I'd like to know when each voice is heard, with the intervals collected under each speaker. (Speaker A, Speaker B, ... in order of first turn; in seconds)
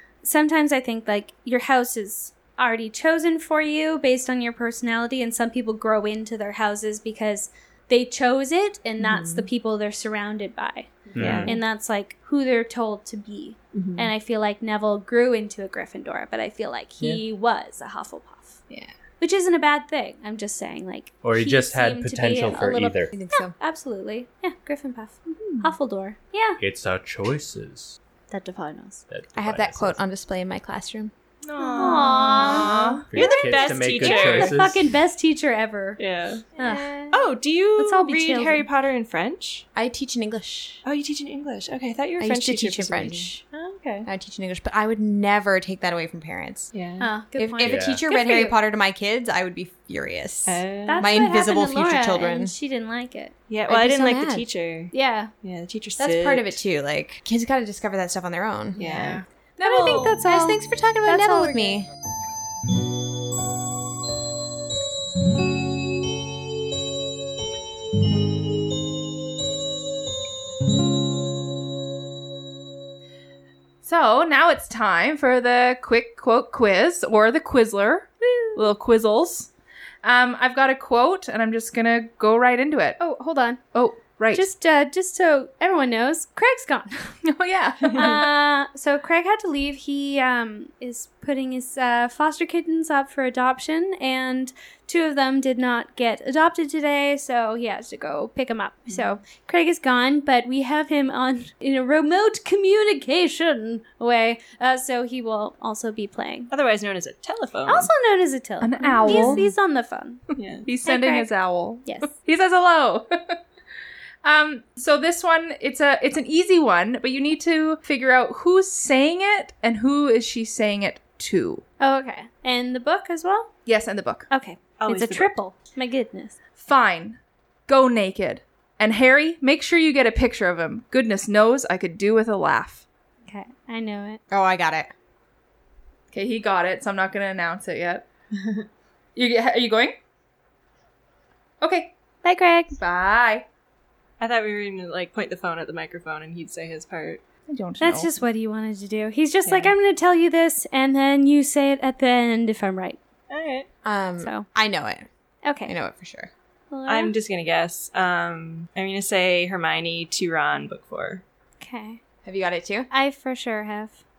Speaker A: 0.2-18.6, 19.2-26.6, 28.3-29.0, 31.6-36.0, 36.6-37.2, 37.8-38.7, 47.0-48.6, 50.9-53.3, 54.9-55.3, 59.6-61.8, 78.2-78.7, 83.0-83.6, 84.3-87.2, 87.9-106.5, 107.7-110.2, 110.8-111.3, 111.8-112.1, 121.8-123.5, 124.3-126.4, 133.3-134.2, 142.2-142.8, 147.8-153.0, 154.2-154.5, 155.4-155.7, 156.7-157.2, 161.6-162.0, 162.9-164.0
Speaker B: 9.0-9.5, 11.2-11.6, 13.7-14.1, 31.9-34.6, 36.0-39.6, 40.8-44.1, 46.7-47.1, 50.5-51.2, 53.5-56.6, 58.8-59.2, 87.8-88.2, 106.5-107.9, 109.0-109.4, 110.4-110.7, 124.8-125.3, 144.2-147.2, 149.5-149.7, 153.3-153.7, 156.9-161.2
Speaker C: 11.1-11.6, 21.2-23.1, 26.6-28.0, 29.1-30.0, 33.1-34.9, 47.6-48.0
Speaker D: 23.1-23.6, 29.4-31.1, 39.8-40.8, 42.2-43.4, 44.0-46.7, 47.3-52.5, 53.7-54.5, 56.0-58.8, 59.6-61.9, 134.3-134.9, 153.8-155.1, 155.7-156.3, 162.2-162.9
Speaker E: 31.4-33.1, 58.8-59.2, 73.8-79.5, 80.0-83.0, 83.7-84.5, 87.2-88.3, 108.6-109.5, 110.7-113.4, 114.2-121.6, 123.7-124.3, 126.6-132.9, 136.1-138.1, 139.2-140.0, 141.6-141.9, 142.8-143.5, 147.5-148.1